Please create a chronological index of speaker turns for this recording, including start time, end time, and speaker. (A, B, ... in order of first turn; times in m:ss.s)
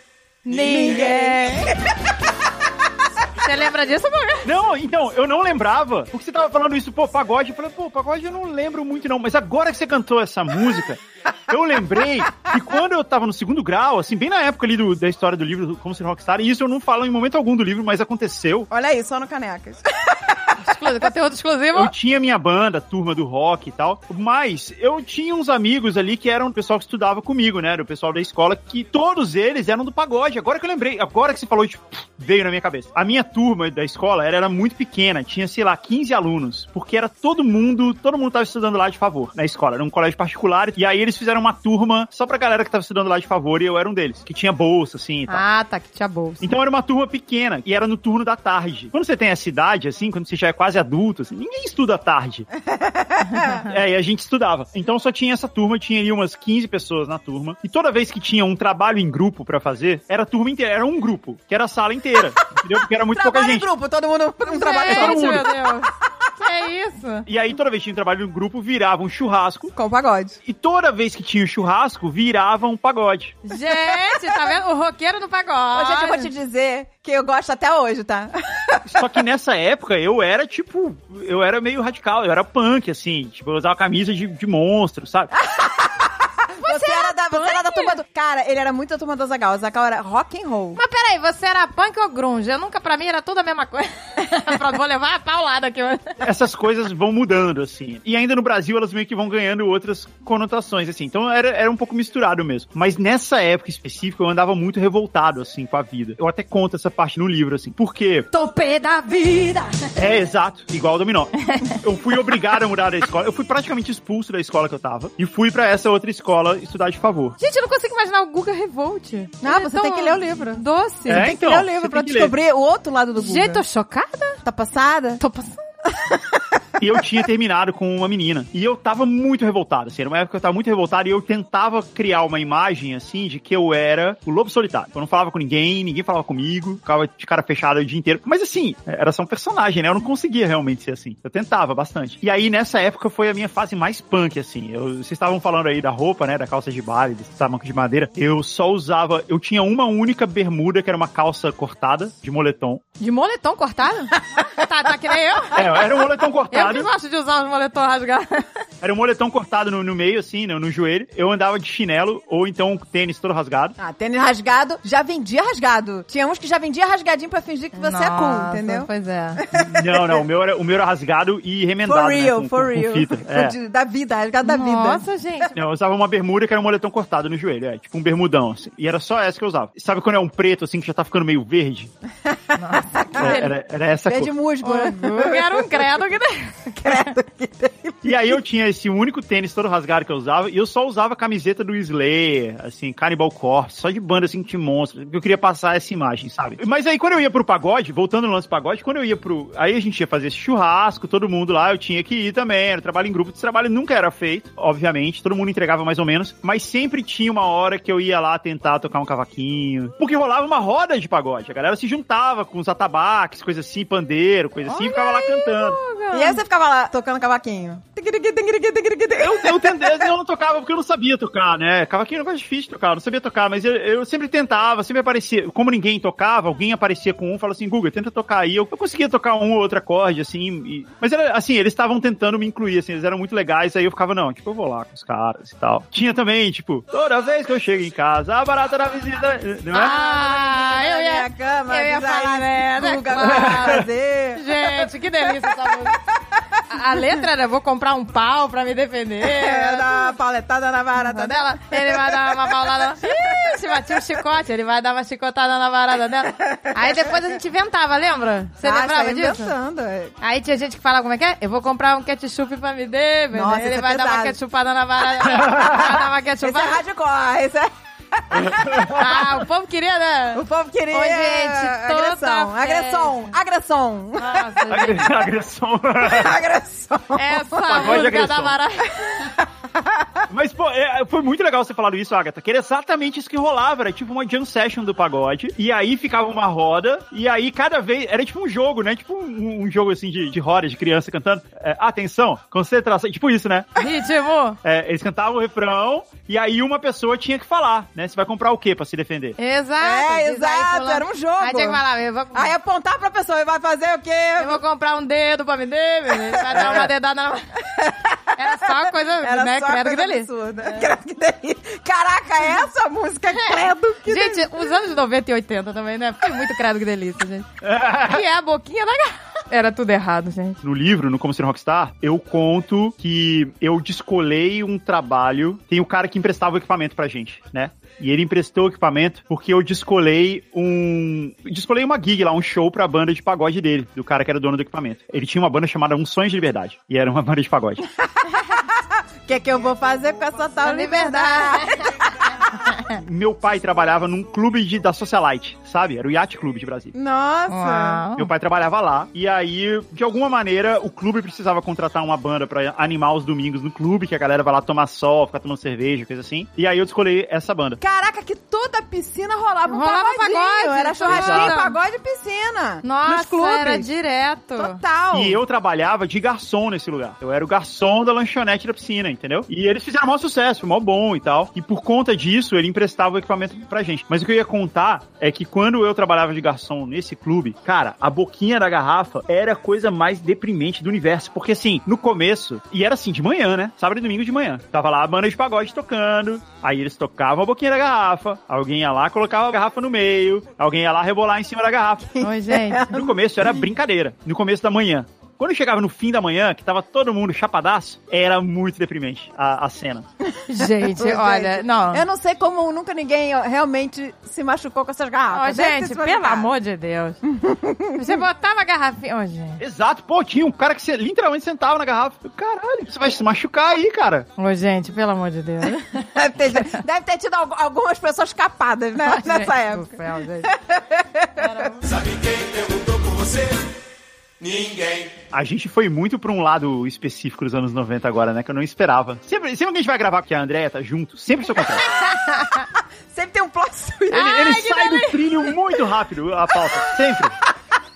0:00.4-0:01.7 A
0:00.5-0:02.1 B
0:03.4-0:04.5 A
0:04.4-0:18.7 C
0:18.7-0:20.6 B
0:20.6-0:21.9 A
0:21.7-0:45.4 C
0:45.3-0:46.4 A
0:46.4-0:52.5 C
0:52.7-0:53.6 B
0:53.5-1:03.7 C
1:03.0-1:05.8 B
1:04.5-1:07.3 A
1:04.8-1:05.5 C
1:07.3-1:09.7 C
1:09.8-1:10.4 B
1:10.4-1:13.4 C
1:13.5-1:16.3 A
1:13.6-1:14.5 B
1:15.7-1:19.0 B
1:18.9-1:25.3 C
1:25.3-1:30.8 B
1:26.6-1:28.0 A
1:30.8-1:36.2 A
1:36.2-1:48.3 C
1:48.3-1:49.9 A
1:50.0-1:57.4 C
1:57.4-2:01.3 A
1:59.4-2:03.6 B
2:01.1-2:02.3 C
2:03.2-2:04.4 A
2:04.4-2:05.2 B
2:05.2-2:05.6 A
2:06.0-2:06.3 B
2:06.8-2:32.8 C
2:33.0-2:38.6 A
2:35.5-2:36.9 C
2:38.8-2:43.8 C
2:43.8-2:48.9 B
2:47.8-2:49.4 A
2:49.4-2:50.2 B
2:49.5-2:53.6 C
2:51.8-2:55.0 B
2:54.4-2:55.5 A
2:55.5-3:01.9 C
3:02.3-3:03.4 B
3:02.6-3:03.6 A
3:03.2-3:04.3 C
3:04.1-3:05.9 B
3:04.6-3:07.1 A
3:06.8-3:08.3 B
3:08.0-3:35.8 C
3:34.7-3:36.4 A
3:36.1-3:40.0 B
3:39.2-4:00.0 C
3:59.7-4:06.0 A
3:59.8-4:07.2 B
4:03.4-4:03.8 C
4:06.7-4:10.1 A
4:09.2-4:14.0 B
4:11.0-4:19.5 A
4:16.4-4:17.1 B
4:18.6-4:20.2 B
4:20.2-4:26.8 A
4:23.3-4:24.4 B
4:25.0-4:29.1 B
4:28.3-4:29.3 C
4:28.9-4:33.3 A
4:30.3-4:34.7 B
4:34.2-4:35.1 A
4:34.7-4:36.4 C
4:36.0-4:38.0 B
4:37.2-4:39.3 A
4:37.7-4:38.6 C
4:39.1-4:40.2 B
4:40.3-4:53.8 C
4:53.8-4:54.6 A
4:54.6-4:59.4 C
4:59.4-5:02.5 A
4:59.8-5:01.8 B
5:02.3-5:04.6 B
5:04.4-5:07.6 A
5:06.3-5:06.8 B
5:06.5-5:06.9 C
5:07.6-5:14.5 B
5:08.4-5:10.9 A
5:13.4-5:20.6 A
5:17.6-5:18.2 C
5:20.6-5:37.8 C
5:38.2-5:42.4 B
5:40.6-5:41.9 A
5:42.9-5:46.9 C
5:46.9-5:48.0 B
5:47.5-5:48.3 A
5:48.2-5:57.8 C
5:57.8-6:03.9 B
5:59.7-6:01.8 A
6:01.1-6:01.5 C
6:02.8-6:04.8 A
6:04.6-6:05.4 B
6:05.1-6:32.2 C
6:32.2-6:33.1 B
6:32.2-6:32.9 A
6:32.9-6:40.0 C
6:40.3-6:46.5 B
6:40.5-6:42.0 A
6:45.3-6:47.2 A
6:47.3-6:48.2 B
6:48.0-6:49.6 A
6:49.6-6:54.3 C
6:54.4-6:56.7 A
6:56.0-7:01.8 B
6:59.0-7:00.5 A
7:01.4-7:01.9 A
7:01.9-7:03.6 D
7:04.4-7:05.1 D
7:05.3-7:11.8 C
7:12.0-7:14.7 B
7:14.1-7:15.2 A
7:14.1-7:17.4 C